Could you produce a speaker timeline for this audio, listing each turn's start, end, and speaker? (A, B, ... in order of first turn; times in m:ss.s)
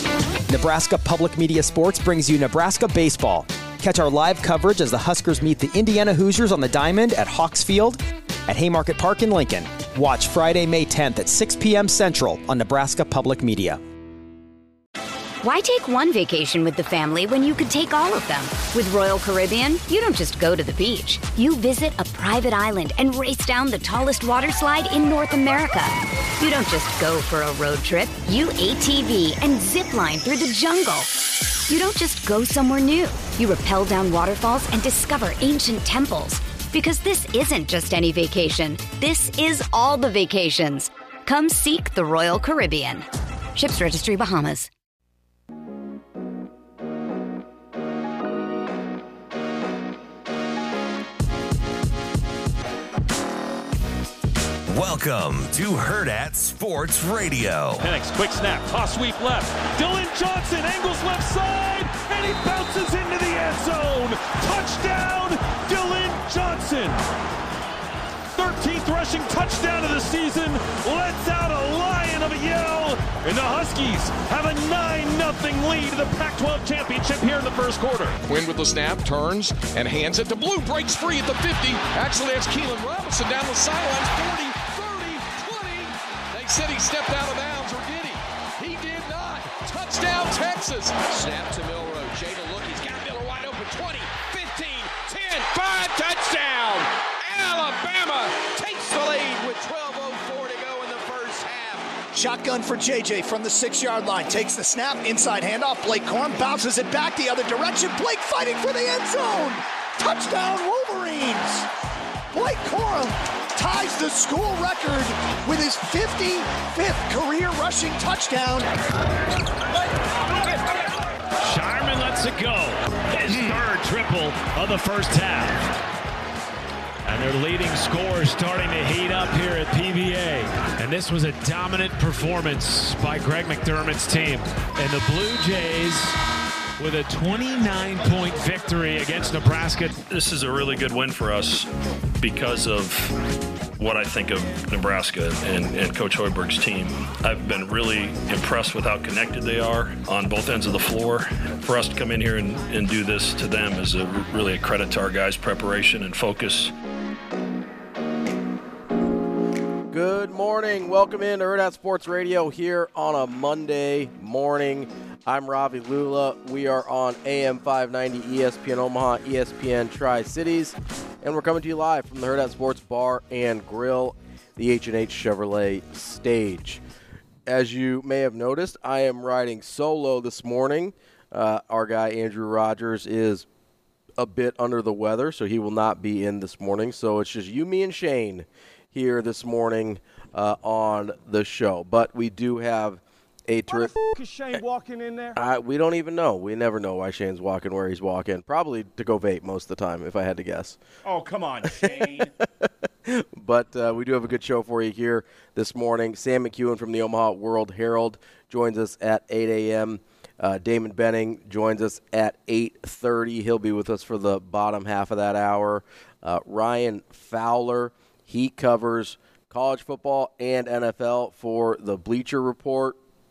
0:00.5-0:13.8 A
0:15.4-0:44.7 B
0:54.7-0:57.9 C
0:57.8-1:07.0 D
1:08.4-1:18.1 D
1:18.2-1:41.9 E
1:42.1-1:51.7 F
1:52.3-1:58.7 F
2:01.4-2:05.7 D
2:07.0-2:16.2 D
2:16.8-2:20.0 D
2:20.1-2:23.2 G
2:23.8-2:36.7 G
2:39.9-2:56.8 H
2:57.5-3:03.5 H
3:04.2-3:13.9 H
3:13.7-3:15.4 I
3:15.4-3:20.8 H
3:21.0-3:22.3 I
3:21.6-3:22.2 H
3:23.1-3:43.0 H